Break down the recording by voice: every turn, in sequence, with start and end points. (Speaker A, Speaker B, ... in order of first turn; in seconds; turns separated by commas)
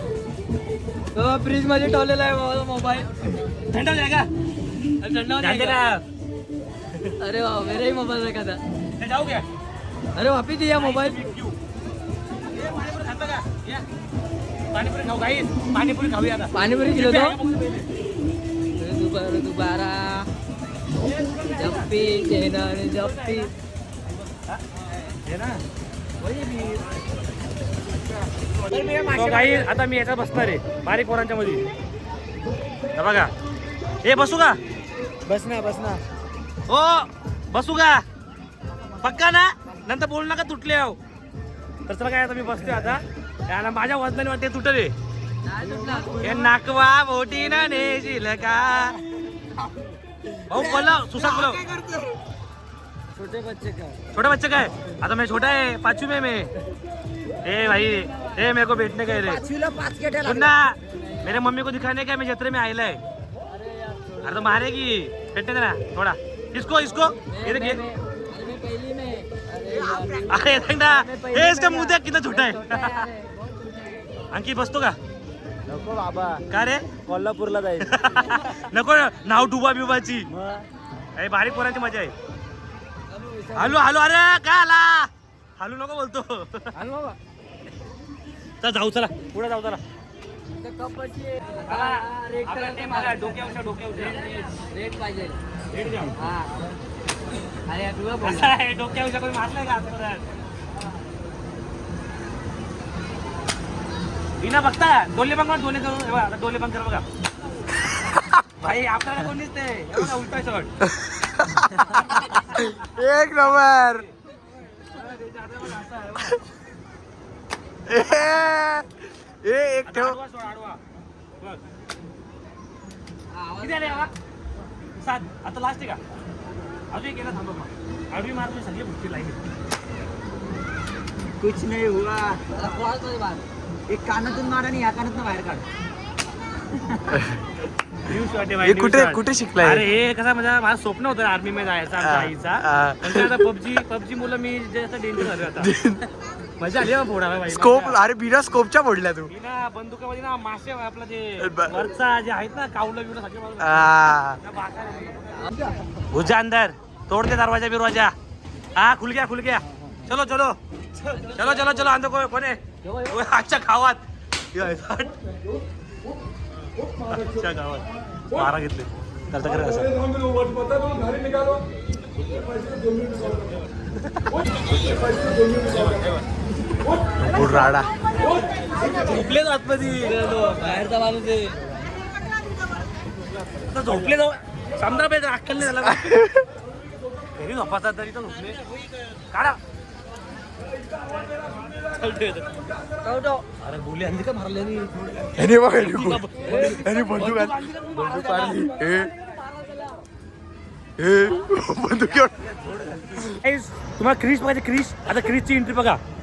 Speaker A: 1.1-3.4, Speaker B: 3.6-4.3, Speaker A: 5.0-5.8, Speaker B: 5.4-6.0, Speaker A: 7.2-8.6, Speaker B: 9.0-9.5, Speaker A: 10.1-11.2, Speaker B: 10.7-11.6, Speaker B: 12.5-13.8, Speaker B: 14.7-17.9, Speaker A: 16.5-17.4, Speaker A: 18.8-20.3, Speaker B: 21.0-21.9, Speaker A: 21.5-23.5, Speaker B: 24.2-24.6, Speaker B: 25.2-25.6, Speaker A: 26.2-26.8, Speaker A: 28.7-29.5, Speaker C: 28.7-29.6, Speaker B: 29.1-31.6, Speaker B: 32.9-33.3, Speaker B: 34.0-34.6, Speaker B: 35.2-36.0, Speaker B: 36.7-38.0, Speaker B: 39.0-41.0, Speaker B: 41.9-44.9, Speaker A: 45.4-46.4, Speaker C: 45.6-46.5, Speaker B: 46.2-49.0, Speaker B: 50.5-51.6, Speaker C: 50.5-52.1, Speaker B: 54.0-56.5, Speaker B: 57.4-59.4, Speaker C: 59.2-60.5, Speaker B: 60.2-63.0, Speaker A: 60.9-61.2, Speaker A: 63.5-64.5, Speaker B: 64.2-67.8, Speaker A: 67.3-74.0, Speaker C: 69.7-70.6, Speaker B: 70.3-73.1, Speaker B: 74.3-75.0, Speaker C: 75.7-76.4, Speaker B: 76.5-77.1, Speaker C: 77.1-77.9, Speaker B: 77.8-80.3, Speaker C: 80.3-80.6, Speaker B: 81.2-82.1, Speaker A: 83.1-83.8, Speaker B: 83.5-86.7, Speaker A: 86.7-87.2, Speaker B: 88.6-89.8, Speaker A: 90.6-95.4, Speaker B: 91.7-94.2, Speaker B: 95.7-96.2, Speaker A: 96.1-96.8, Speaker A: 97.7-98.5, Speaker B: 98.2-100.2, Speaker B: 104.4-107.0, Speaker B: 108.6-110.7, Speaker D: 111.0-114.0, Speaker B: 114.9-116.4, Speaker D: 117.9-120.2, Speaker B: 119.8-120.8, Speaker A: 123.3-124.1, Speaker B: 123.6-124.1, Speaker B: 125.0-126.0, Speaker B: 126.9-129.4, Speaker C: 131.4-132.5, Speaker A: 132.5-133.4, Speaker C: 133.9-135.7, Speaker B: 138.1-145.7, Speaker D: 138.6-139.8, Speaker D: 142.0-143.4, Speaker D: 145.6-146.0, Speaker B: 146.6-148.0, Speaker D: 147.5-149.3, Speaker B: 149.3-155.5, Speaker D: 151.4-151.8, Speaker D: 153.6-154.4, Speaker C: 155.3-155.8, Speaker B: 156.1-158.1, Speaker B: 158.7-160.6, Speaker A: 161.1-161.8, Speaker B: 161.3-165.1, Speaker A: 162.8-163.3, Speaker B: 167.0-170.0, Speaker C: 170.6-171.4, Speaker B: 173.9-176.2, Speaker D: 177.2-177.9, Speaker B: 177.2-177.8, Speaker B: 178.7-180.4, Speaker A: 180.0-181.6, Speaker B: 183.6-186.3, Speaker D: 186.0-186.4, Speaker B: 187.3-188.6, Speaker B: 189.3-189.6, Speaker B: 191.1-192.6, Speaker A: 193.0-193.4, Speaker B: 193.6-195.0, Speaker C: 195.1-195.4, Speaker D: 195.3-199.1, Speaker B: 195.7-198.7, Speaker A: 196.4-200.0, Speaker D: 201.0-202.4, Speaker B: 202.6-206.0